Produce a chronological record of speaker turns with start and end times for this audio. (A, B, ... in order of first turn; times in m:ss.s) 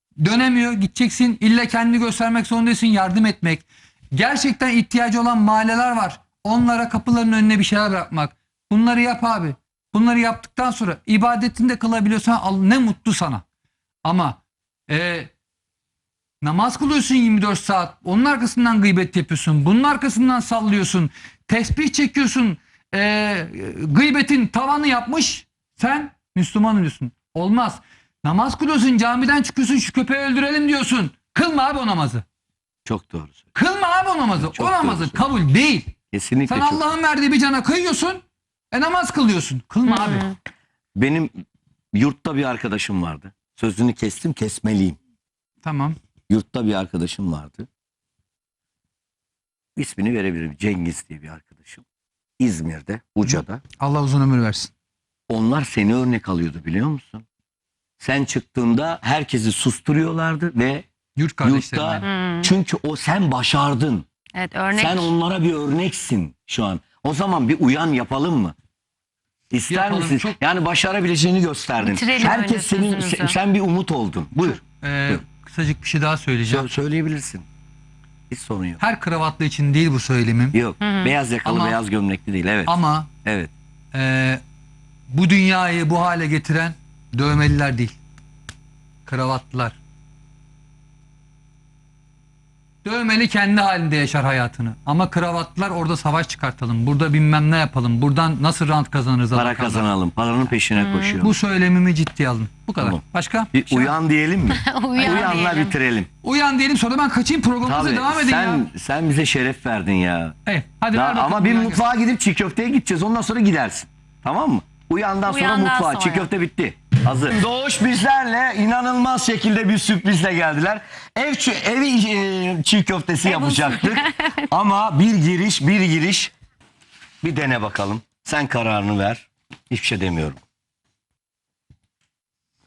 0:00.2-0:13.4 A
0:14.0-0:15.3 A
0:16.4-0:32.2 A
0:32.9-0:33.5 B
0:33.6-0:36.0 A
0:34.4-0:35.2 B
0:36.1-0:36.8 B
0:36.5-0:40.3 A
0:39.9-0:40.3 C
0:41.0-0:41.3 B
0:41.9-0:45.0 B
0:45.6-0:46.0 A
0:46.3-0:47.7 B
0:49.8-0:51.8 B
0:52.4-0:53.6 B
0:53.2-0:54.7 A
0:55.3-0:57.3 B
0:58.0-1:00.9 B
1:01.2-1:02.0 A
1:01.4-1:04.1 B
1:02.0-1:02.5 C
1:04.3-1:05.1 C
1:04.7-1:08.6 B
1:09.5-1:15.2 B
1:09.7-1:10.4 A
1:11.8-1:13.4 C
1:14.6-1:16.7 A
1:16.5-1:17.4 B
1:18.3-1:18.8 B
1:18.8-1:20.6 A
1:20.5-1:23.5 B
1:20.8-1:21.1 C
1:21.4-1:21.8 A
1:22.7-1:23.1 A
1:23.9-1:24.4 A
1:25.1-1:28.0 A
1:29.0-1:29.8 A
1:32.8-1:39.9 A
1:39.3-1:41.4 B
1:40.8-1:41.2 C
1:41.2-1:44.0 A
1:43.5-1:46.1 B
1:44.5-1:45.8 C
1:45.0-1:45.4 A
1:46.2-1:48.6 A
1:47.6-1:50.4 B
1:50.5-1:51.8 A
1:50.9-2:06.3 B
1:55.2-1:56.3 C
2:03.2-2:04.4 C
2:07.2-2:10.4 B